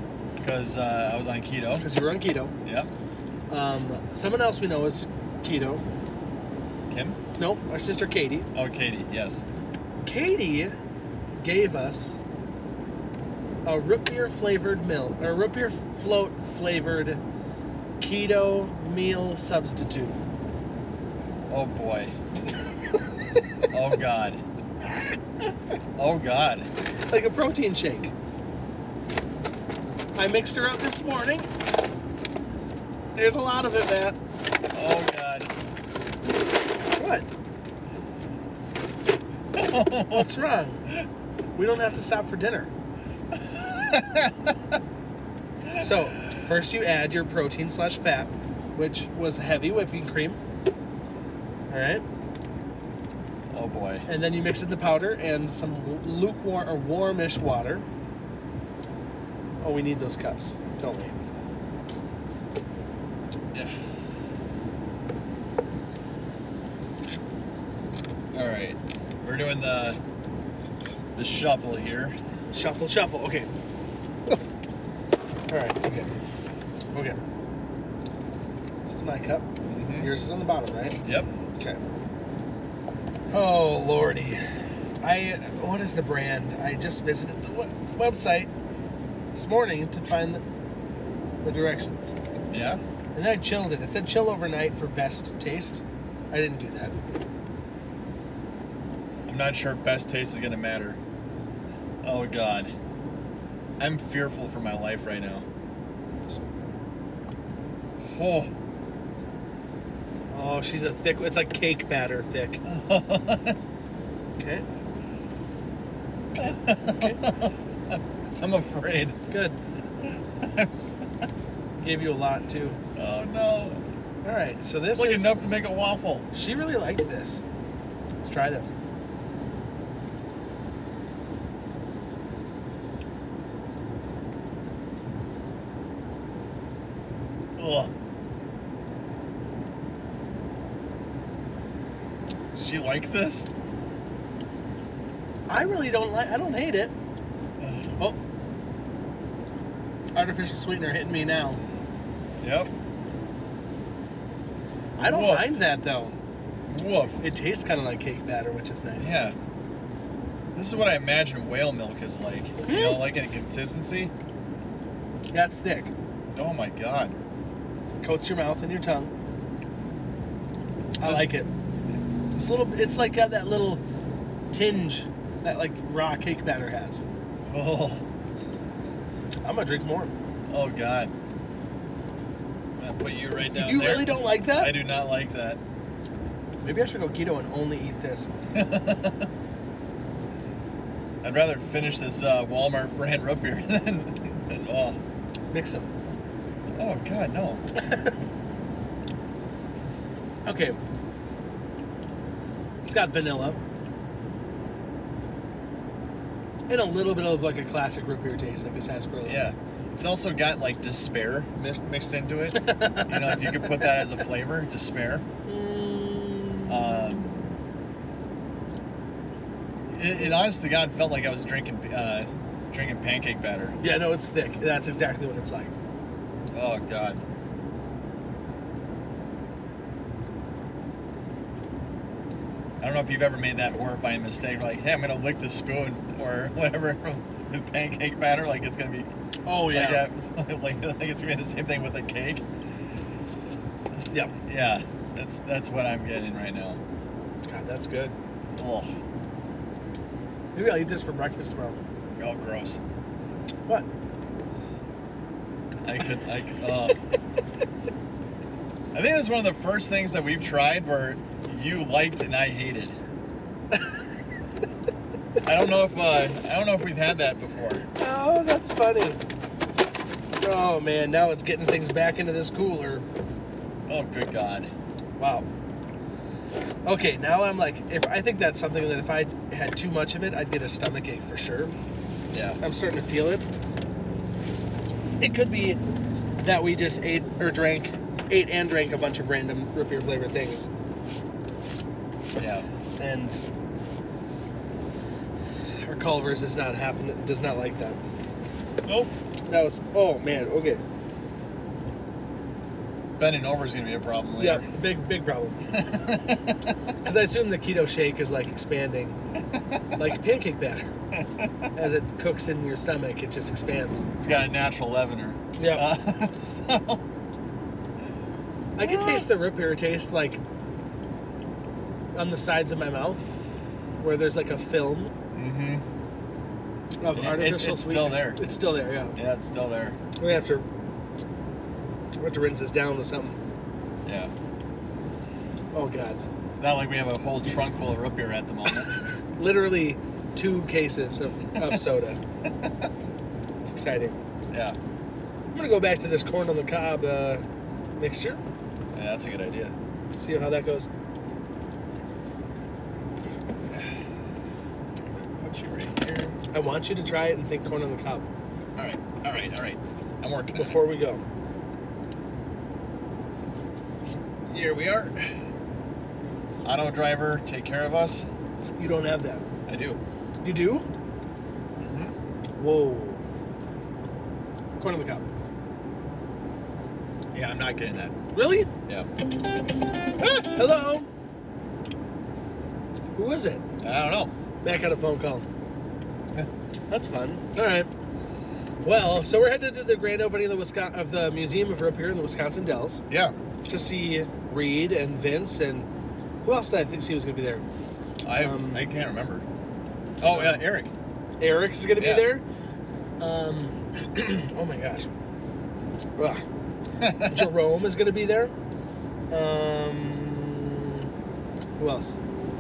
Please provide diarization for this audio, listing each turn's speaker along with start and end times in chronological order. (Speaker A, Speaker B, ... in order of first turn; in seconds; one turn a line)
Speaker A: 0.4-1.9
Speaker B: 1.8-2.5
Speaker A: 2.6-2.9
Speaker B: 3.5-5.8
Speaker A: 6.9-7.2
Speaker B: 7.4-8.5
Speaker A: 8.5-9.4
Speaker B: 10.1-10.7
Speaker B: 11.4-12.2
Speaker B: 13.6-17.2
Speaker B: 18.0-20.2
Speaker A: 21.5-22.1
Speaker A: 23.7-24.4
Speaker A: 26.0-26.7
Speaker B: 27.1-28.1
Speaker B: 30.1-31.5
Speaker B: 33.1-34.2
Speaker A: 34.7-35.5
Speaker B: 37.0-37.3
Speaker A: 39.5-40.3
Speaker B: 40.1-40.9
Speaker B: 41.6-42.7
Speaker A: 43.3-44.6
Speaker B: 45.8-50.4
Speaker B: 51.7-52.0
Speaker A: 53.5-54.1
Speaker B: 54.1-57.9
Speaker B: 59.6-61.1
Speaker A: 63.5-63.8
Speaker A: 68.3-70.0
Speaker A: 71.1-72.1
Speaker B: 72.5-73.5
Speaker B: 75.5-76.1
Speaker B: 76.9-77.2
Speaker B: 78.8-79.5
Speaker A: 79.7-80.1
Speaker B: 80.0-81.0
Speaker A: 81.0-81.3
Speaker B: 83.3-88.5
Speaker B: 89.3-90.4
Speaker B: 91.4-92.1
Speaker A: 92.5-92.8
Speaker B: 93.1-97.0
Speaker A: 99.3-101.0
Speaker A: 102.0-102.7
Speaker A: 103.8-105.5
Speaker A: 108.0-108.5
Speaker B: 110.3-112.6
Speaker A: 112.6-113.6
Speaker B: 114.4-114.7
Speaker B: 116.3-117.2
Speaker A: 116.4-119.2
Speaker B: 119.3-119.6
Speaker A: 120.0-121.0
Speaker B: 121.8-122.8
Speaker A: 123.0-123.8
Speaker B: 124.2-125.4
Speaker A: 125.0-126.3
Speaker B: 126.3-127.4
Speaker B: 128.2-128.7
Speaker A: 137.6-137.9
Speaker A: 142.5-143.5
Speaker B: 145.5-146.9
Speaker A: 147.6-147.9
Speaker B: 150.1-151.6
Speaker A: 152.4-152.7
Speaker B: 155.0-156.2
Speaker A: 155.0-155.6
Speaker A: 156.7-157.2
Speaker B: 157.2-159.2
Speaker A: 159.0-159.4
Speaker A: 160.6-164.1
Speaker B: 162.7-163.0
Speaker B: 165.3-165.9
Speaker A: 166.3-167.2
Speaker B: 168.0-169.1
Speaker B: 171.0-171.5
Speaker A: 171.0-171.3
Speaker B: 172.3-173.8
Speaker B: 174.5-177.0
Speaker A: 177.5-178.1
Speaker B: 179.4-180.1
Speaker A: 180.5-181.1
Speaker A: 182.8-185.6
Speaker B: 183.6-184.8
Speaker B: 186.6-188.3
Speaker A: 188.5-189.3
Speaker A: 191.2-195.0
Speaker B: 195.5-195.9
Speaker A: 196.7-197.6
Speaker B: 197.8-198.2
Speaker B: 200.5-200.8
Speaker B: 202.8-203.6
Speaker B: 206.7-209.4
Speaker A: 209.2-215.2
Speaker B: 212.5-214.1
Speaker B: 215.4-217.5
Speaker A: 216.7-217.3
Speaker A: 219.9-223.8
Speaker B: 223.8-225.7
Speaker A: 226.5-227.2
Speaker A: 232.8-239.1
Speaker B: 239.5-240.0
Speaker A: 239.6-242.4
Speaker A: 244.4-246.8
Speaker B: 247.5-248.2
Speaker A: 248.5-248.9
Speaker B: 250.6-251.8
Speaker A: 252.2-252.8
Speaker A: 255.8-257.0
Speaker A: 258.9-262.9
Speaker B: 263.7-264.1
Speaker A: 265.4-267.9
Speaker B: 268.0-269.2
Speaker B: 270.4-273.1
Speaker A: 273.9-274.7
Speaker B: 275.2-275.5
Speaker B: 276.9-281.8
Speaker A: 282.3-282.6
Speaker B: 282.6-283.4
Speaker B: 285.2-285.8
Speaker B: 286.4-290.7
Speaker A: 292.4-292.6
Speaker B: 293.0-293.4
Speaker B: 295.8-298.0
Speaker A: 298.9-299.1
Speaker B: 299.5-300.8
Speaker A: 303.2-304.7
Speaker B: 304.4-305.6
Speaker A: 305.7-306.8
Speaker B: 307.1-309.2
Speaker A: 309.5-310.0
Speaker B: 310.0-310.9
Speaker A: 311.1-311.7
Speaker B: 311.8-314.0
Speaker A: 314.2-317.0
Speaker B: 315.6-315.9
Speaker B: 318.8-320.4
Speaker A: 318.8-319.3
Speaker B: 322.1-323.2
Speaker B: 324.0-325.1
Speaker A: 325.3-325.8
Speaker B: 327.0-329.2
Speaker A: 327.1-328.4
Speaker A: 329.1-330.0
Speaker B: 330.2-330.6
Speaker B: 332.2-333.4
Speaker A: 334.1-334.3
Speaker B: 335.7-336.2
Speaker A: 336.5-339.0
Speaker B: 339.4-342.2
Speaker A: 342.4-342.9
Speaker B: 343.6-344.2
Speaker A: 344.5-344.8
Speaker B: 345.5-347.4
Speaker B: 348.0-348.4
Speaker A: 348.9-349.7
Speaker B: 350.1-350.9
Speaker A: 353.7-353.9
Speaker A: 355.0-356.4
Speaker B: 356.5-358.3
Speaker A: 358.8-360.8
Speaker B: 360.6-361.2
Speaker A: 364.5-365.3
Speaker A: 366.6-368.3
Speaker B: 368.8-369.5
Speaker A: 369.7-370.0
Speaker B: 370.4-370.9
Speaker A: 371.8-372.1
Speaker B: 372.6-373.2
Speaker B: 374.8-375.2
Speaker A: 377.3-378.2
Speaker B: 378.3-378.7
Speaker A: 380.2-380.5
Speaker B: 380.5-381.1
Speaker B: 383.1-383.6
Speaker A: 383.8-384.3
Speaker B: 384.6-385.5
Speaker B: 386.9-387.9
Speaker B: 388.8-393.0
Speaker A: 393.1-393.4
Speaker B: 393.6-395.9
Speaker B: 396.4-397.6
Speaker A: 398.2-399.5
Speaker B: 398.4-398.8
Speaker A: 400.2-400.9
Speaker B: 400.3-400.6
Speaker B: 401.4-402.4
Speaker A: 402.0-402.2
Speaker B: 403.2-405.1
Speaker B: 406.2-406.4
Speaker A: 407.0-407.5
Speaker B: 407.2-408.5
Speaker B: 409.3-411.1
Speaker B: 411.8-412.1